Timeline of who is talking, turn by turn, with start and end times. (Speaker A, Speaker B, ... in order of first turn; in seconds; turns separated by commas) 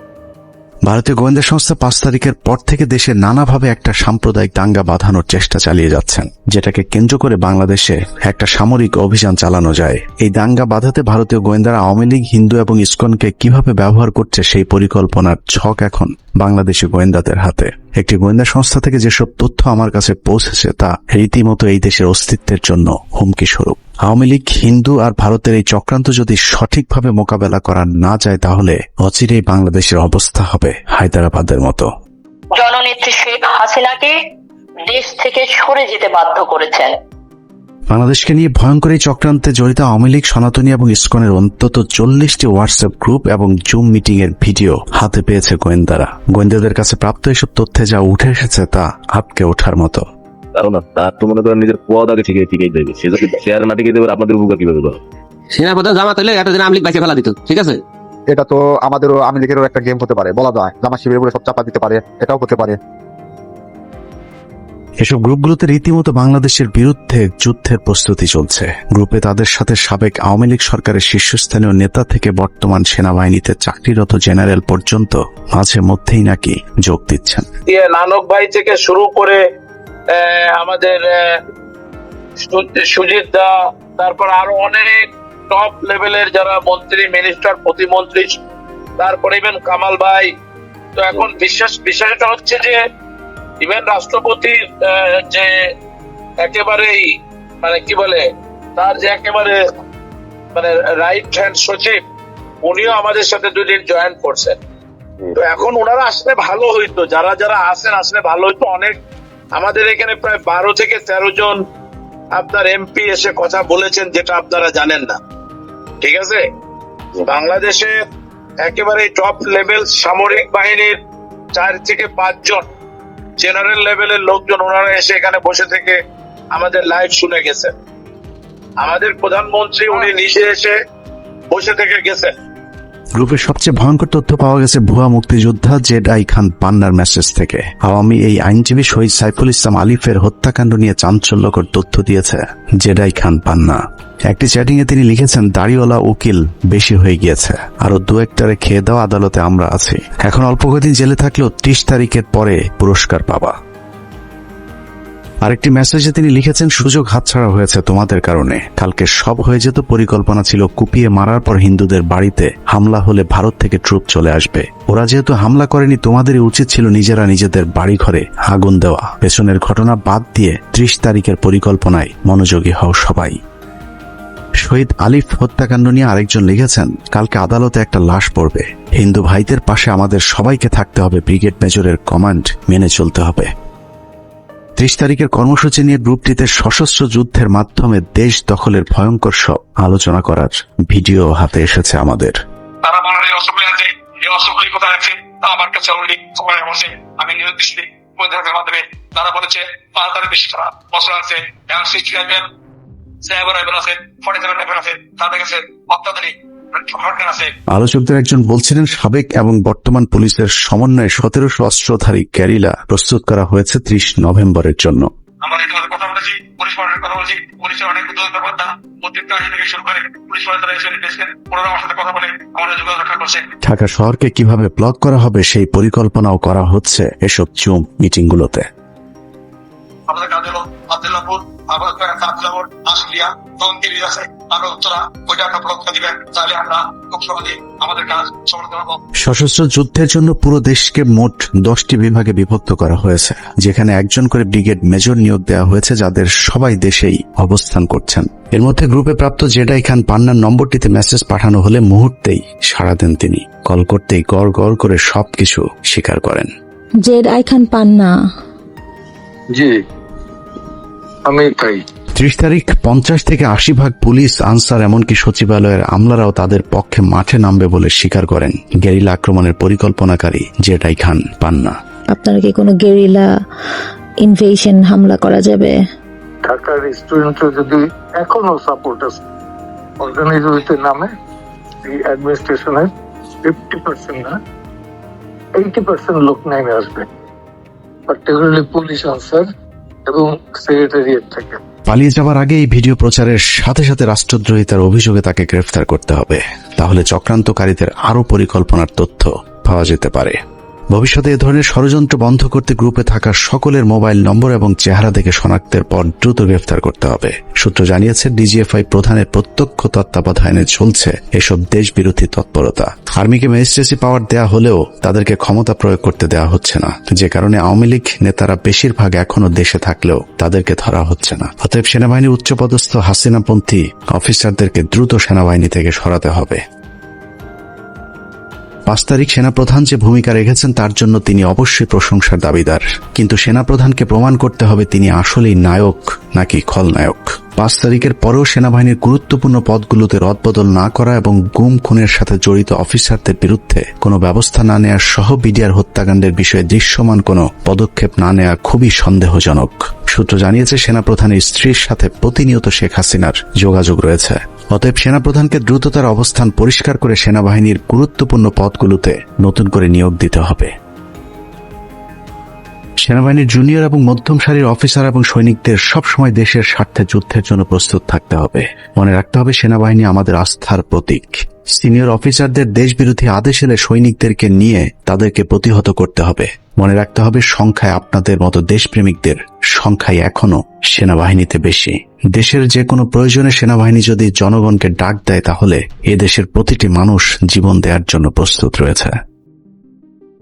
Speaker A: 0.8-31.9, Speaker B: 32.5-34.2, Speaker B: 34.8-36.9, Speaker A: 37.9-50.0, Speaker C: 50.5-55.0, Speaker D: 55.5-57.8, Speaker E: 58.3-62.8, Speaker A: 65.0-77.5, Speaker F: 77.7-79.4, Speaker F: 80.1-81.4, Speaker F: 82.4-88.4, Speaker F: 89.0-90.3, Speaker F: 91.0-92.8, Speaker F: 93.6-95.5, Speaker F: 96.4-97.0, Speaker F: 97.6-98.2, Speaker F: 98.8-99.6, Speaker F: 100.5-102.0, Speaker F: 102.6-104.6, Speaker F: 105.3-109.0, Speaker F: 109.5-111.6, Speaker F: 112.3-115.2, Speaker F: 116.0-116.4, Speaker F: 117.2-117.9, Speaker F: 118.6-121.0, Speaker F: 121.5-122.6, Speaker F: 123.4-126.0, Speaker F: 126.5-127.7, Speaker F: 128.8-130.7, Speaker F: 131.5-132.3, Speaker A: 133.2-153.5, Speaker A: 155.4-173.4, Speaker A: 174.6-183.5, Speaker A: 184.8-192.4, Speaker G: 192.8-202.5, Speaker G: 203.2-207.5, Speaker A: 207.7-215.1, Speaker G: 215.4-223.4, Speaker A: 223.6-228.7, Speaker G: 230.1-239.0, Speaker A: 239.2-256.5, Speaker H: 257.0-258.1, Speaker I: 259.5-259.8, Speaker I: 261.2-261.8, Speaker A: 262.1-271.7, Speaker H: 272.1-273.3, Speaker H: 274.2-275.8, Speaker I: 276.4-279.2, Speaker I: 280.0-281.1, Speaker I: 281.8-282.9, Speaker I: 283.4-284.4, Speaker I: 285.5-287.1, Speaker I: 288.1-289.5, Speaker I: 290.1-291.6, Speaker A: 291.9-300.4, Speaker A: 300.9-326.6, Speaker A: 328.9-360.7, Speaker A: 363.0-389.1